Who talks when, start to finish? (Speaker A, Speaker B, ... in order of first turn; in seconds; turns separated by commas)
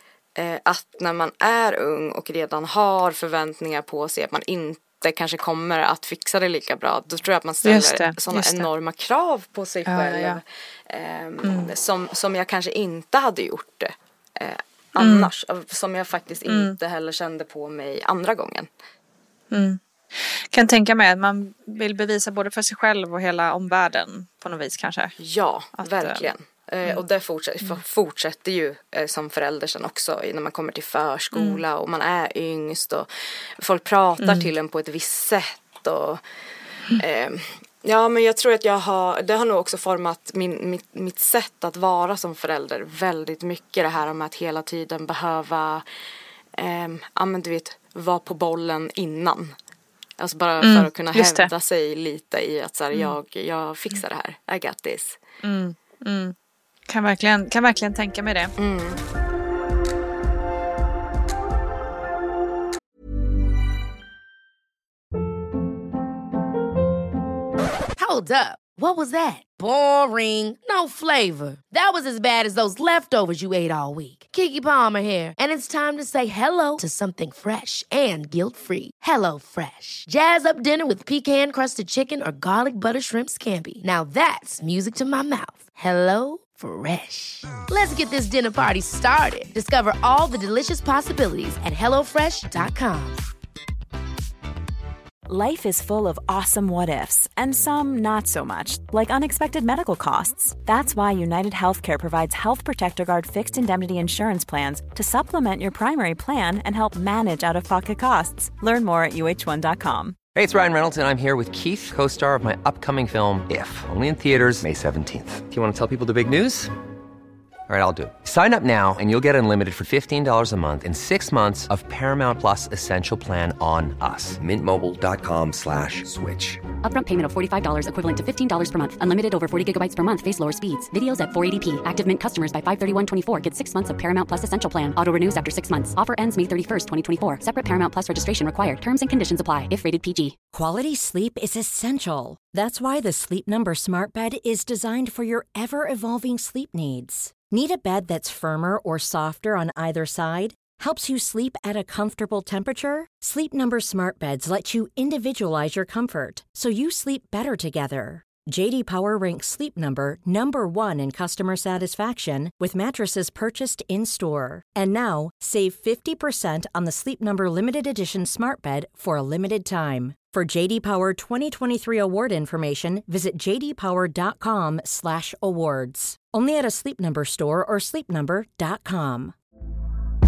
Speaker A: 0.4-18.7, Speaker B: 7.7-8.7, Speaker B: 9.9-10.4, Speaker B: 11.4-11.7, Speaker B: 15.0-15.3, Speaker B: 16.5-16.8, Speaker B: 19.5-25.1, Speaker A: 25.2-36.2, Speaker B: 25.8-26.2, Speaker B: 31.4-31.6, Speaker B: 34.2-34.5, Speaker A: 37.0-45.9, Speaker A: 46.5-49.5, Speaker A: 50.2-55.2, Speaker B: 50.6-51.5, Speaker B: 55.4-56.3, Speaker B: 56.9-58.5, Speaker A: 58.6-59.0, Speaker C: 68.0-93.2, Speaker D: 95.3-110.2, Speaker E: 110.3-116.7, Speaker E: 117.7-126.6, Speaker F: 126.8-140.4, Speaker G: 140.5-179.3